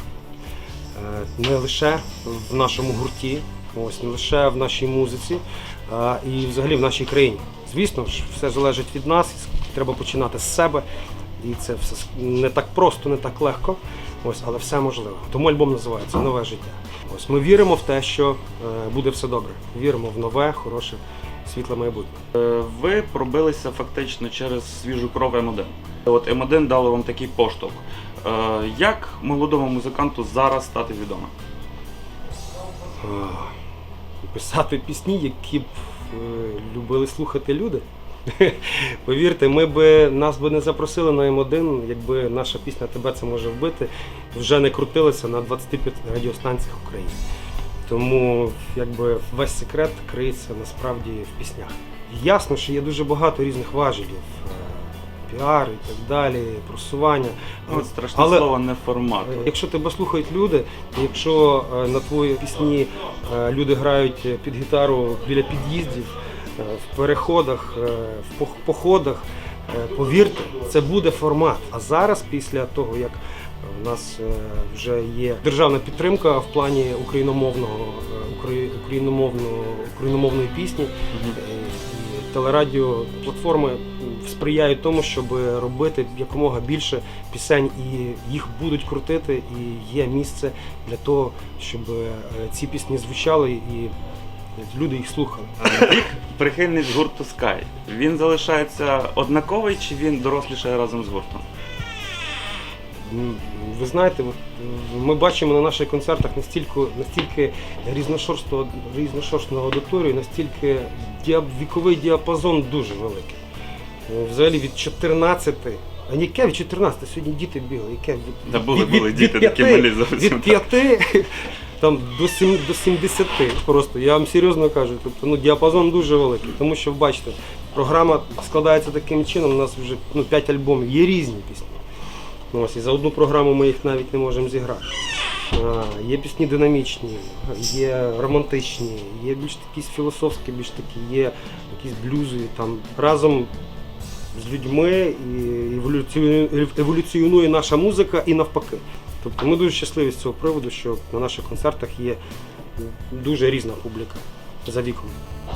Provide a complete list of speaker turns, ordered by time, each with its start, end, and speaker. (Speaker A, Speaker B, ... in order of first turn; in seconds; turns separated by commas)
Speaker A: 0.9-10.8, Speaker A: 11.4-22.2, Speaker B: 22.3-31.3, Speaker A: 33.0-33.5, Speaker A: 34.2-47.2, Speaker A: 47.9-58.5, Speaker B: 57.7-59.5, Speaker A: 59.2-93.9, Speaker B: 81.1-81.4, Speaker A: 94.6-95.9, Speaker B: 95.6-101.4, Speaker A: 103.0-113.4, Speaker A: 114.1-131.8, Speaker B: 118.5-120.6, Speaker A: 132.5-135.0, Speaker A: 135.5-143.5, Speaker A: 144.3-152.2, Speaker A: 152.8-155.2